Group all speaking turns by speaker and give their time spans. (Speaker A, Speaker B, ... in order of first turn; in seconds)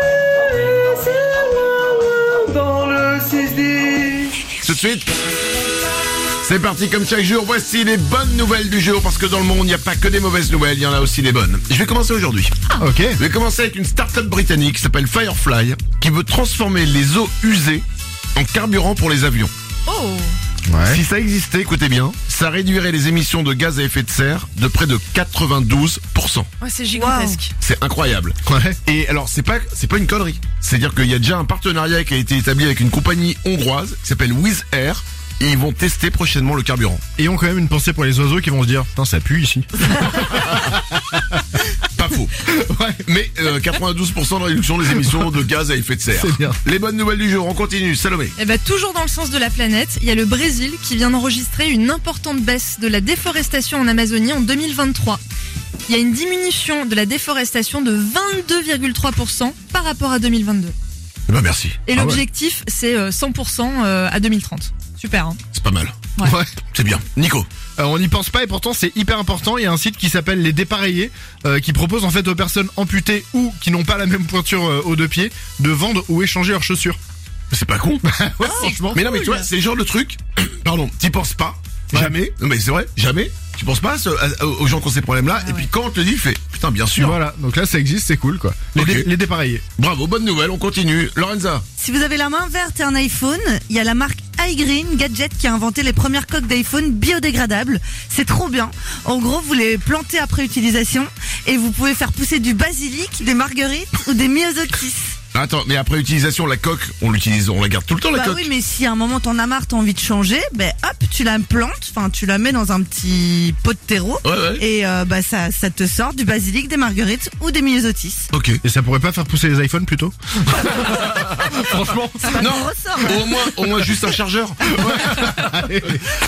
Speaker A: 0.7-4.4
Speaker B: 4.6-5.1, 6.4-12.6, 13.2-19.5, 20.9-26.5, 27.6-37.0, 41.9-42.4, 43.0-48.3, 61.3-61.8, 65.5-66.0, 66.7-67.5, 77.5-87.2, 88.8-89.1, 89.8-91.7, 105.3-108.5, 114.2-114.6, 118.3-118.6, 122.4-125.3
Speaker C: 12.8-13.2, 20.7-21.0, 28.5-28.8, 37.2-41.6, 42.4-43.0, 46.1-46.6, 62.0-62.2, 66.2-66.5, 67.8-77.0, 78.0-79.1, 81.9-82.2, 87.0-89.7, 118.6-122.4, 124.8-126.1
Speaker D: 19.9-20.3, 26.6-27.5, 48.4-55.2, 55.9-60.8, 61.9-65.4, 85.4-85.7
Speaker E: 26.9-27.4, 78.6-79.4, 91.8-105.2, 108.1-118.3, 122.2-123.5